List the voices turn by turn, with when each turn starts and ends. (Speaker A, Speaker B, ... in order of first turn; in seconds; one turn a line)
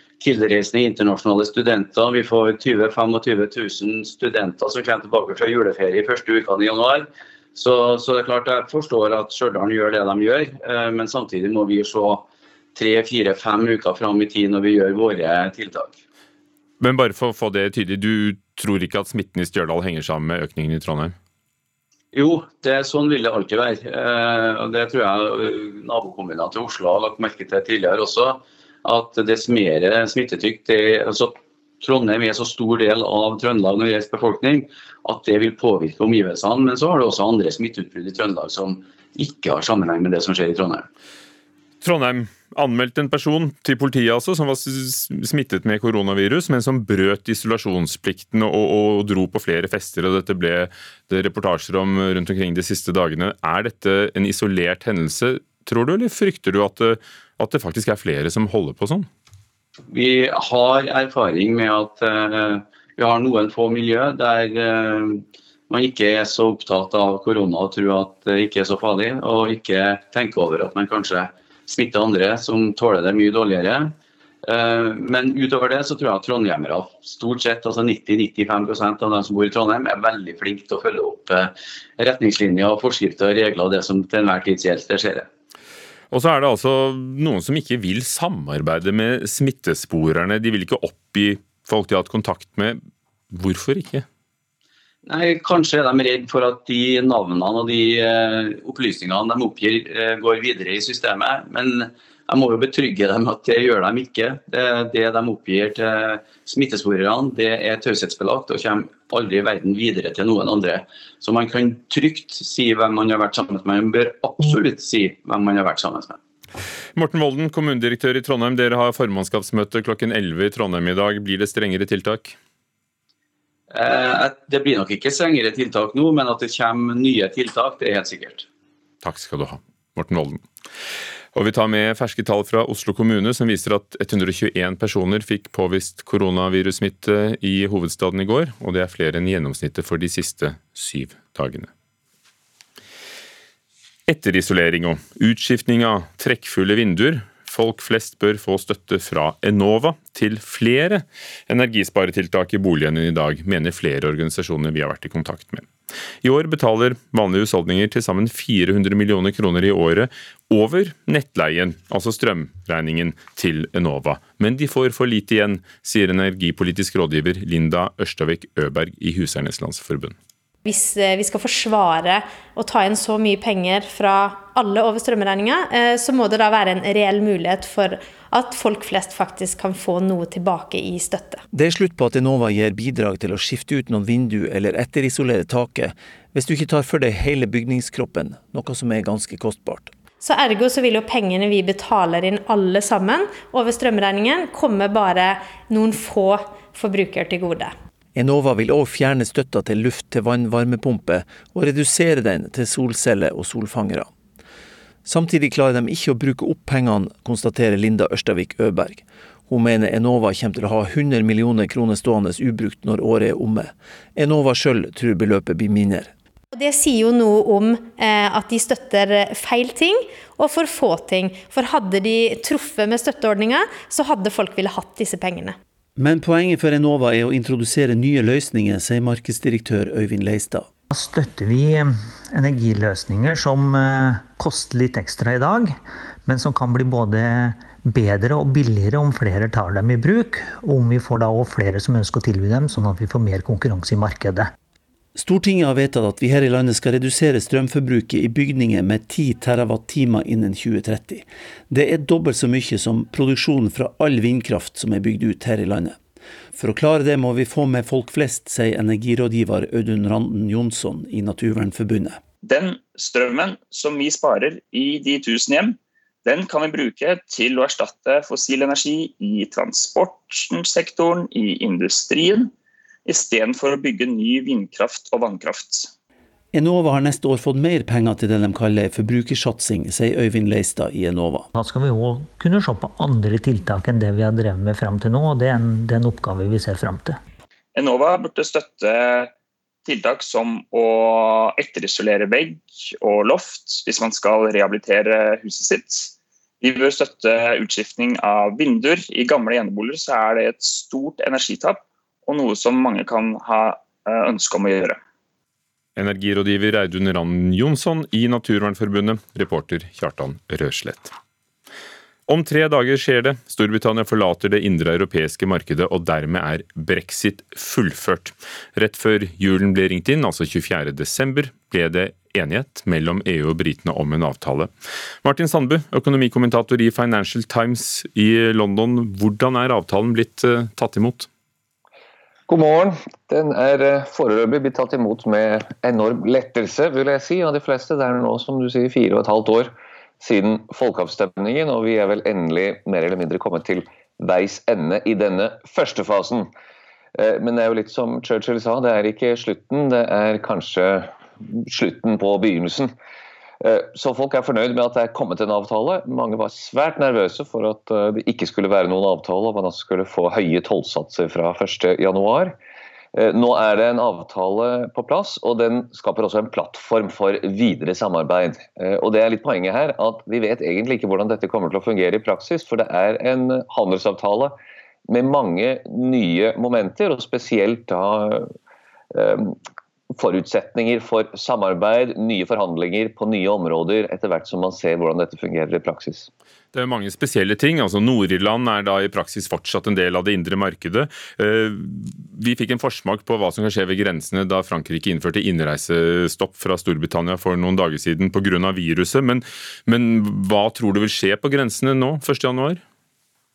Speaker A: 0.2-16.0
Speaker B: 16.8-21.1
Speaker A: 22.1-40.9
Speaker B: 41.8-59.1
Speaker A: 59.9-73.9
Speaker A: 74.5-85.3
Speaker B: 86.1-92.8
Speaker B: 93.3-94.1
Speaker A: 95.1-116.2
Speaker B: 117.0-122.4
Speaker A: 123.7-128.5
Speaker B: 129.0-130.4
Speaker B: 131.3-141.7
Speaker B: 144.1-155.7
Speaker B: 156.2-170.2
Speaker C: 170.6-181.4
Speaker D: 181.5-189.9
Speaker C: 190.2-197.8
Speaker D: 198.2-204.1
Speaker D: 205.1-216.1
Speaker C: 216.5-225.6
Speaker D: 226.0-230.7
Speaker E: 230.9-244.5
Speaker D: 245.2-256.0
Speaker D: 256.5-262.2
Speaker F: 262.4-272.5
Speaker F: 273.1-275.9
Speaker D: 276.5-281.5
Speaker E: 281.6-287.2
Speaker F: 287.8-289.3
Speaker F: 289.9-305.0
Speaker B: 306.0-311.1
Speaker B: 312.3-324.7
Speaker B: 325.2-331.3
Speaker G: 332.5-346.5
Speaker G: 347.2-352.9
Speaker G: 353.6-362.6
Speaker G: 363.1-374.6
Speaker G: 375.1-378.5
Speaker G: 379.1-379.6
Speaker G: 380.1-386.3
Speaker B: 386.7-402.8